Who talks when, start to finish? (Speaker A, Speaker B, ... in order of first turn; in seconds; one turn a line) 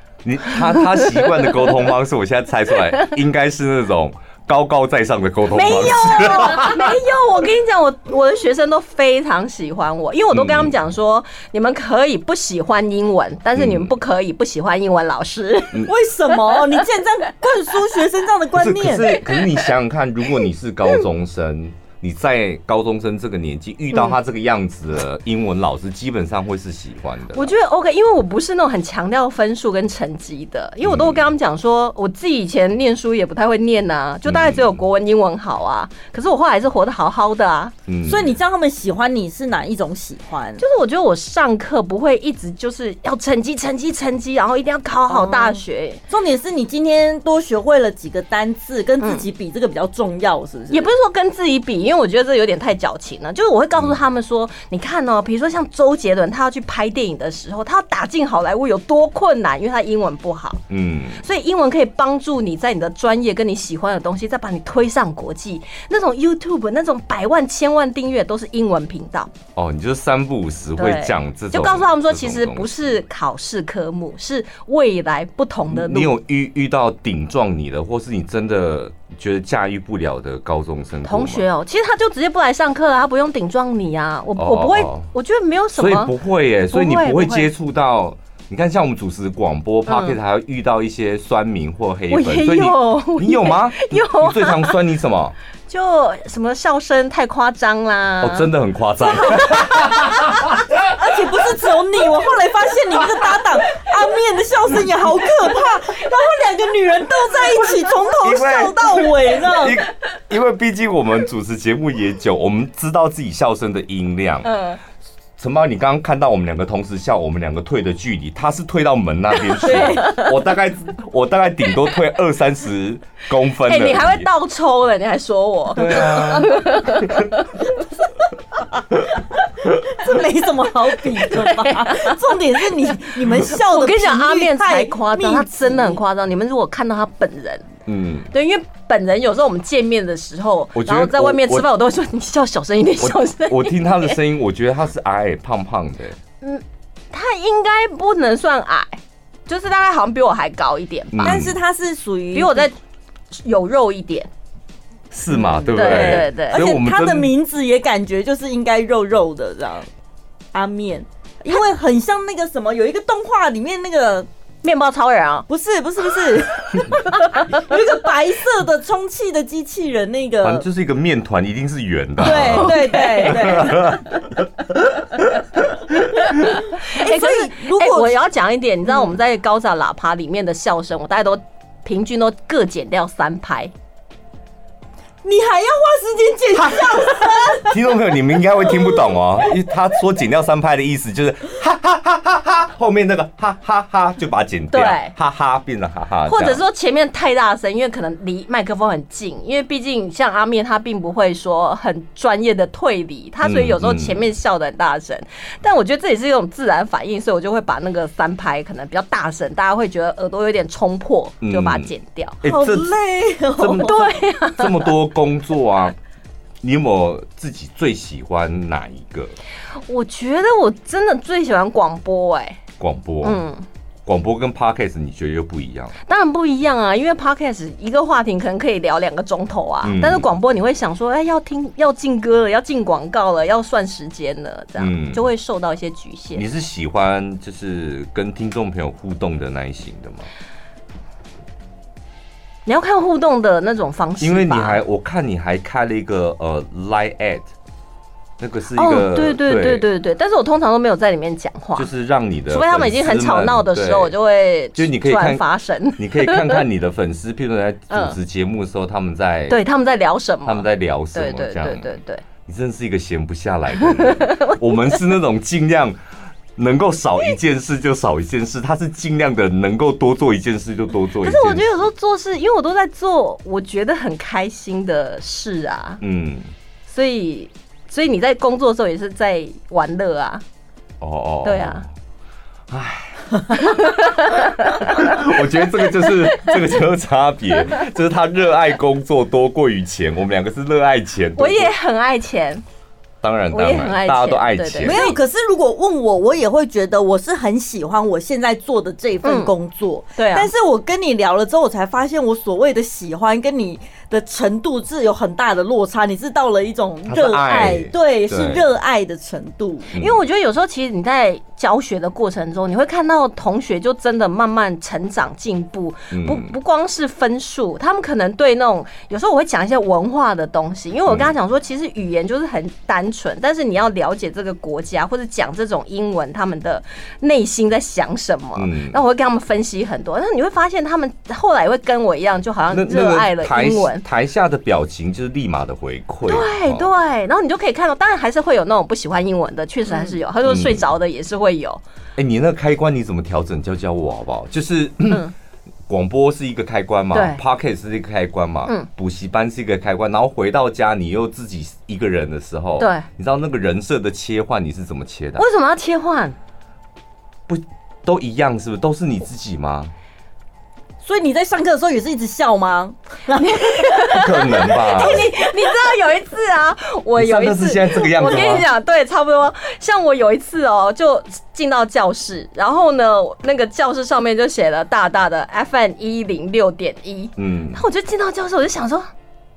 Speaker A: 0.2-7.0
Speaker B: 0.7-1.7
Speaker B: 5.5-16.8
Speaker A: 10.3-10.8
Speaker A: 13.6-13.9
Speaker C: 15.9-19.2
Speaker A: 18.5-27.5
Speaker B: 19.1-19.6
Speaker B: 27.3-37.7
Speaker A: 30.8-31.2
Speaker A: 34.2-34.7
Speaker A: 37.9-38.4
Speaker C: 38.1-40.6
Speaker B: 40.6-46.0
Speaker C: 45.1-50.9
Speaker B: 49.0-49.2
Speaker B: 50.7-60.6
Speaker A: 60.7-61.2
Speaker B: 61.2-69.3
Speaker A: 69.6-73.0
Speaker B: 70.8-76.2
Speaker A: 75.7-81.5
Speaker B: 81.0-86.1
Speaker A: 84.4-85.1
Speaker A: 85.8-95.3
Speaker B: 86.7-87.5
Speaker B: 89.9-90.2
Speaker B: 92.1-94.8
Speaker B: 95.7-98.5
Speaker A: 98.2-100.6
Speaker B: 99.1-100.1
Speaker C: 100.9-109.8
Speaker A: 108.2-114.5
Speaker B: 114.5-114.8
Speaker A: 115.4-124.3
Speaker B: 119.6-120.3
Speaker B: 123.7-127.8
Speaker A: 125.8-127.3
Speaker C: 129.6-136.0
Speaker B: 131.2-132.3
Speaker B: 132.8-137.7
Speaker A: 137.9-138.3
Speaker B: 138.3-144.2
Speaker A: 140.8-141.7
Speaker A: 143.0-146.2
Speaker B: 146.4-151.4
Speaker A: 151.1-151.6
Speaker C: 151.2-152.7
Speaker B: 152.3-152.8
Speaker B: 153.3-154.3
Speaker A: 155.1-157.3
Speaker C: 155.3-159.9
Speaker B: 155.7-156.6
Speaker C: 160.5-164.3
Speaker B: 164.6-165.5
Speaker C: 165.5-170.7
Speaker B: 166.9-167.6
Speaker A: 170.4-175.2
Speaker C: 172.2-174.0
Speaker B: 172.2-173.9
Speaker B: 176.1-183.7
Speaker C: 176.8-178.2
Speaker C: 185.2-187.8
Speaker A: 186.8-196.6
Speaker B: 194.7-195.1
Speaker B: 196.3-212.4
Speaker A: 203.4-204.2
Speaker A: 211.4-211.9
Speaker A: 212.4-212.9
Speaker C: 212.4-214.1
Speaker A: 213.6-216.0
Speaker B: 213.8-214.9
Speaker A: 216.6-219.3
Speaker B: 219.9-222.6
Speaker A: 222.8-223.4
Speaker B: 223.2-223.7
Speaker A: 224.1-225.9
Speaker B: 226.1-236.4
Speaker A: 229.8-230.3
Speaker A: 234.8-235.2
Speaker A: 236.3-240.3
Speaker B: 242.7-244.8
Speaker A: 244.2-247.5
Speaker A: 248.4-249.8
Speaker B: 248.7-251.9
Speaker A: 251.8-254.1
Speaker B: 252.5-256.6
Speaker A: 254.8-255.4
Speaker A: 256.0-259.6
Speaker B: 257.9-258.2
Speaker B: 259.5-262.2
Speaker A: 260.4-266.0
Speaker B: 263.8-265.0
Speaker A: 266.6-271.7
Speaker B: 271.2-276.0
Speaker A: 276.0-276.5
Speaker B: 276.9-280.4
Speaker A: 281.0-281.9
Speaker B: 281.4-281.8
Speaker A: 282.7-283.9
Speaker B: 283.5-285.2
Speaker A: 284.8-291.7
Speaker B: 285.9-286.6
Speaker B: 291.4-292.6
Speaker A: 293.2-295.1
Speaker B: 293.5-295.2
Speaker C: 294.8-309.9
Speaker B: 299.2-299.5
Speaker B: 300.2-300.5
Speaker A: 307.1-308.7
Speaker A: 309.9-310.2
Speaker B: 310.0-334.1
Speaker A: 316.1-316.5
Speaker A: 321.1-321.3
Speaker A: 328.6-329.0
Speaker A: 332.7-336.9
Speaker B: 336.3-341.8
Speaker A: 340.4-340.9
Speaker A: 342.2-345.3
Speaker A: 345.9-355.4
Speaker B: 347.1-347.4
Speaker B: 352.8-353.1
Speaker B: 355.4-356.4
Speaker A: 357.5-359.9
Speaker C: 361.0-365.3
Speaker B: 363.4-379.1
Speaker A: 364.1-365.3
Speaker A: 367.2-368.7
Speaker A: 377.4-377.8